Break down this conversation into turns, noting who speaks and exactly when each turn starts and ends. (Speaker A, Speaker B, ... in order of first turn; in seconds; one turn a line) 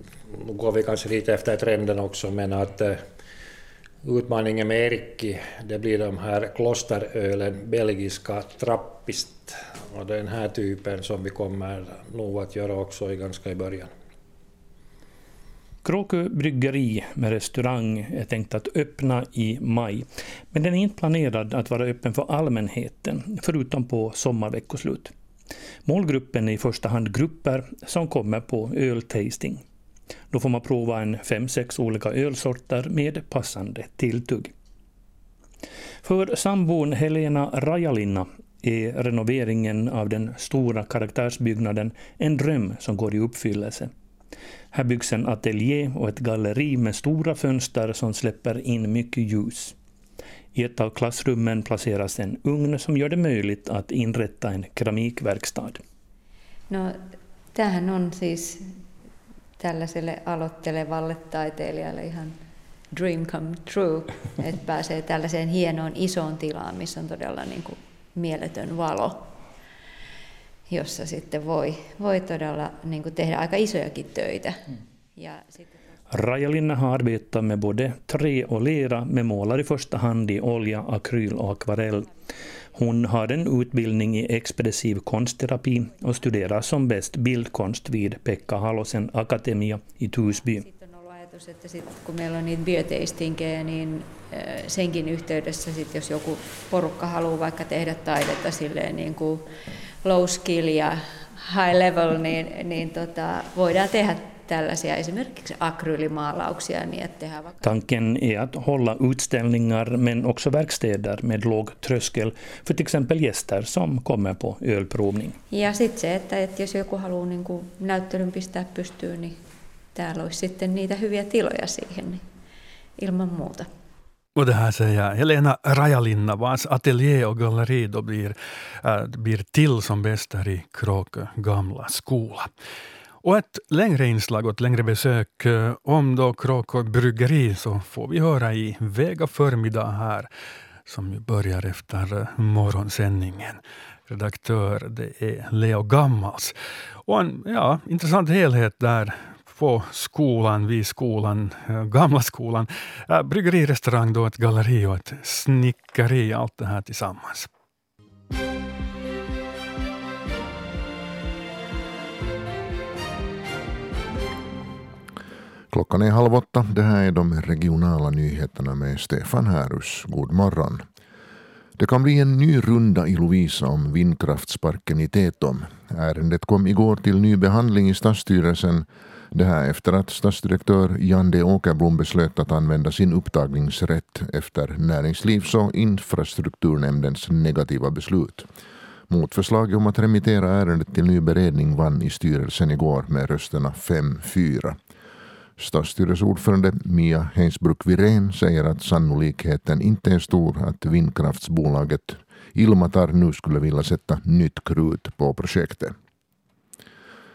Speaker A: 0.3-3.0
Speaker A: 4.0-13.9
Speaker B: 15.8-25.1
Speaker B: 25.8-29.6
Speaker B: 30.3-34.5
Speaker B: 36.0-43.9
Speaker B: 44.7-49.8
Speaker B: 50.5-55.8
Speaker C: 56.7-58.7
Speaker C: 59.6-62.4
Speaker C: 62.9-69.3
Speaker C: 70.7-75.7
Speaker B: 76.1-82.1
Speaker B: 82.7-90.7
Speaker C: 90.6-99.5
Speaker C: 100.0-107.7
Speaker B: 107.6-115.4
Speaker C: 115.5-119.4
Speaker C: 119.9-122.2
Speaker C: 123.0-123.7
Speaker D: 124.3-132.5
Speaker D: 133.2-140.3
Speaker D: 140.8-146.5
Speaker D: 147.1-157.5
Speaker E: 165.7-170.8
Speaker E: 171.8-188.5
Speaker E: 189.1-194.8
Speaker E: 195.6-205.9